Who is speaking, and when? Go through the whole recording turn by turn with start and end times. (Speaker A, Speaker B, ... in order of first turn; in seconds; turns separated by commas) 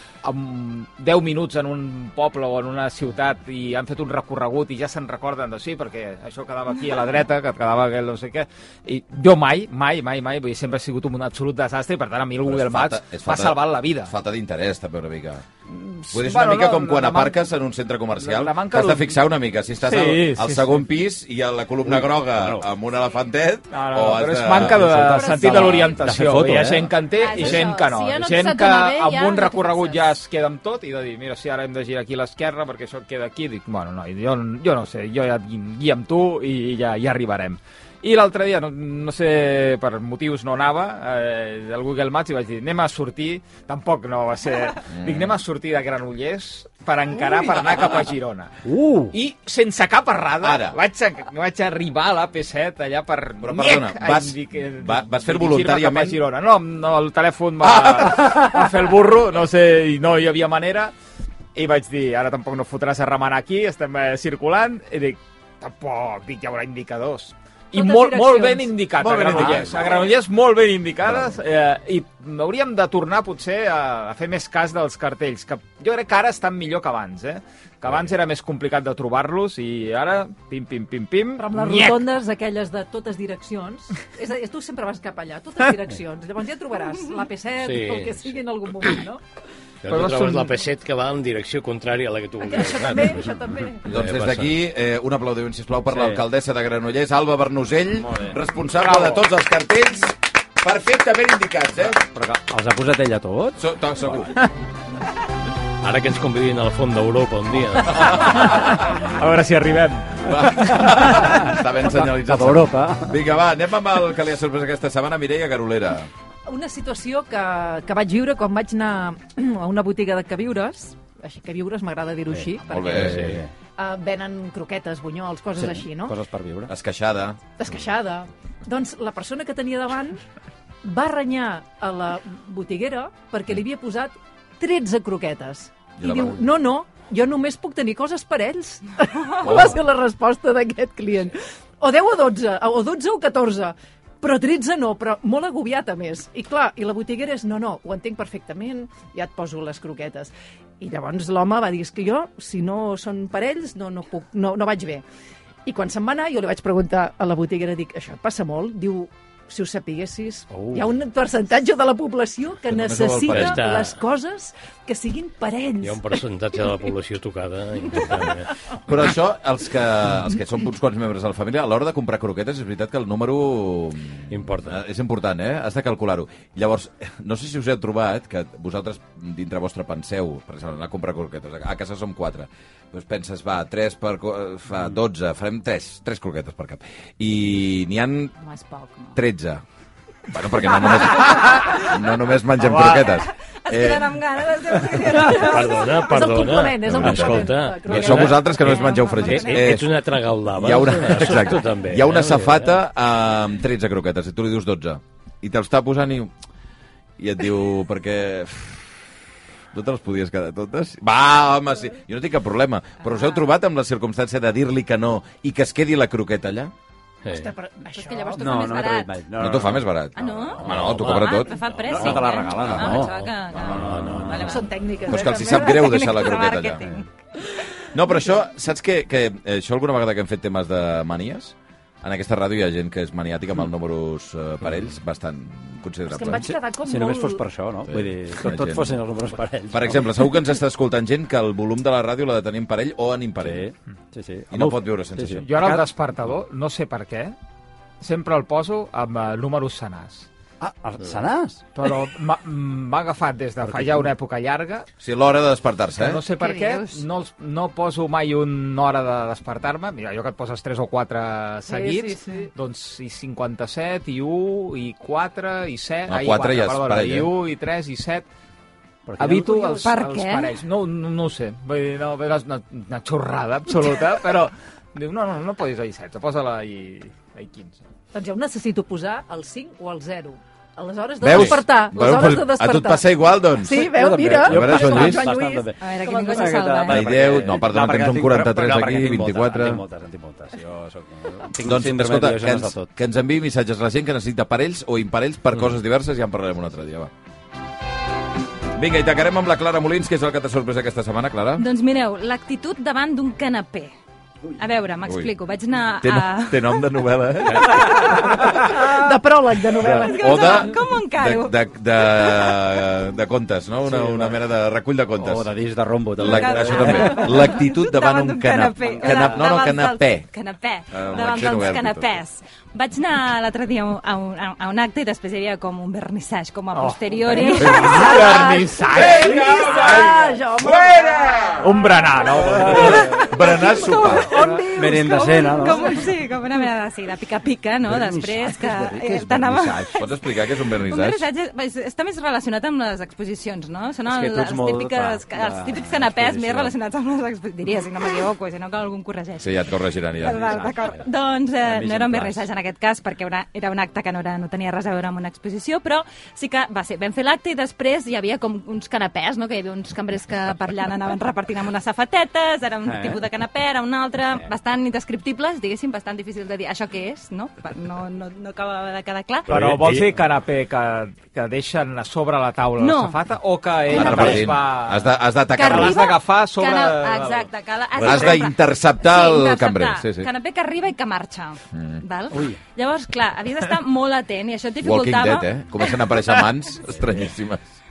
Speaker A: 0.2-14.1, Speaker B: 12.4-15.4, Speaker A: 15.7-17.4, Speaker B: 16.1-25.0, Speaker A: 18.2-19.2, Speaker A: 19.8-20.9, Speaker C: 21.9-22.7, Speaker A: 23.7-60.9, Speaker C: 24.6-27.6, Speaker D: 25.1-26.0, Speaker D: 27.1-30.2, Speaker B: 44.9-45.4, Speaker C: 48.7-49.1, Speaker B: 50.4-50.8, Speaker B: 53.4-56.2, Speaker B: 57.6-58.3, Speaker A: 61.5-82.1, Speaker E: 67.7-68.8, Speaker B: 69.0-70.1, Speaker C: 69.3-69.6, Speaker B: 71.0-71.4, Speaker E: 81.4-89.2, Speaker F: 87.6-88.3, Speaker F: 89.8-93.3, Speaker A: 89.9-90.6, Speaker E: 92.4-93.8, Speaker F: 93.8-94.5, Speaker B: 93.8-102.0, Speaker C: 95.9-96.2, Speaker C: 98.0-98.4, Speaker A: 98.8-99.2, Speaker C: 102.1-103.6, Speaker B: 103.6-104.5, Speaker F: 105.8-108.3, Speaker B: 108.0-108.5, Speaker A: 108.5-110.8, Speaker B: 110.2-116.1, Speaker C: 110.8-113.2, Speaker E: 116.5-126.2, Speaker C: 122.3-123.5, Speaker B: 122.7-123.4, Speaker C: 125.6-126.7, Speaker B: 126.7-127.4, Speaker E: 127.6-130.2, Speaker E: 130.8-155.0, Speaker B: 136.0-136.4, Speaker B: 139.4-139.8, Speaker E: 155.7-166.1, Speaker C: 160.5-160.9, Speaker B: 162.7-163.7, Speaker F: 163.3-164.0, Speaker F: 165.8-168.5, Speaker B: 168.9-188.3, Speaker F: 174.3-174.8, Speaker D: 188.4-189.2, Speaker B: 189.2-189.6, Speaker B: 190.3-194.2, Speaker A: 192.6-193.0, Speaker D: 193.3-195.9, Speaker F: 195.2-202.8, Speaker E: 195.2-198.5, Speaker B: 196.9-199.9, Speaker D: 198.5-199.8, Speaker B: 200.5-206.3, Speaker B: 207.2-209.0, Speaker B: 209.7-216.7, Speaker F: 217.2-217.5, Speaker E: 217.3-218.8, Speaker D: 218.0-219.2, Speaker C: 218.4-221.1, Speaker B: 219.4-221.5, Speaker D: 220.2-227.1, Speaker F: 220.8-222.4, Speaker C: 221.9-224.6, Speaker B: 222.6-223.1, Speaker F: 222.9-224.5, Speaker E: 224.4-225.9, Speaker B: 225.1-226.9, Speaker B: 227.9-236.4, Speaker E: 236.1-237.4, Speaker C: 236.2-240.3, Speaker B: 237.9-239.0, Speaker B: 239.7-243.7, Speaker C: 243.4-245.8, Speaker B: 244.5-245.6, Speaker A: 245.4-247.3, Speaker A: 248.0-250.3, Speaker C: 250.6-251.7, Speaker A: 251.8-254.9, Speaker C: 253.6-254.1, Speaker B: 255.0-256.2, Speaker A: 255.9-268.3, Speaker D: 256.4-257.0, Speaker E: 261.7-262.5, Speaker B: 266.1-267.3, Speaker C: 269.1-269.9, Speaker A: 269.2-277.8, Speaker D: 269.8-270.6, Speaker E: 278.1-285.7, Speaker B: 281.2-283.9, Speaker C: 283.6-292.9, Speaker B: 284.4-285.2, Speaker D: 285.8-287.3, Speaker B: 286.9-289.8, Speaker B: 291.6-297.1, Speaker B: 298.8-301.6, Speaker D: 301.6-303.9, Speaker D: 304.6-306.8, Speaker B: 305.0-305.3, Speaker B: 306.0-308.5, Speaker F: 307.4-307.7, Speaker D: 307.6-309.0, Speaker E: 308.7-310.6, Speaker B: 309.8-315.5, Speaker D: 309.8-311.5, Speaker C: 313.9-314.4, Speaker C: 315.2-317.5, Speaker B: 316.2-320.3, Speaker D: 316.2-328.7, Speaker C: 318.9-319.2, Speaker B: 320.9-322.1, Speaker A: 326.7-329.6, Speaker E: 327.4-331.6, Speaker B: 328.9-331.7, Speaker A: 331.6-333.2, Speaker C: 332.5-333.2, Speaker B: 332.5-334.3, Speaker E: 333.5-336.0, Speaker D: 333.6-340.0, Speaker C: 334.2-336.2, Speaker C: 337.8-340.0, Speaker B: 340.0-341.2, Speaker D: 340.6-349.6, Speaker C: 344.1-346.8, Speaker B: 349.4-350.6, Speaker D: 350.2-369.5, Speaker C: 350.3-352.5, Speaker C: 362.8-363.2, Speaker F: 369.5-370.2, Speaker A: 369.5-377.5, Speaker D: 372.8-373.2, Speaker D: 373.9-374.5, Speaker B: 373.9-376.1, Speaker D: 375.6-386.3, Speaker C: 378.0-378.3, Speaker B: 378.0-380.3, Speaker C: 382.3-382.6, Speaker B: 384.8-387.6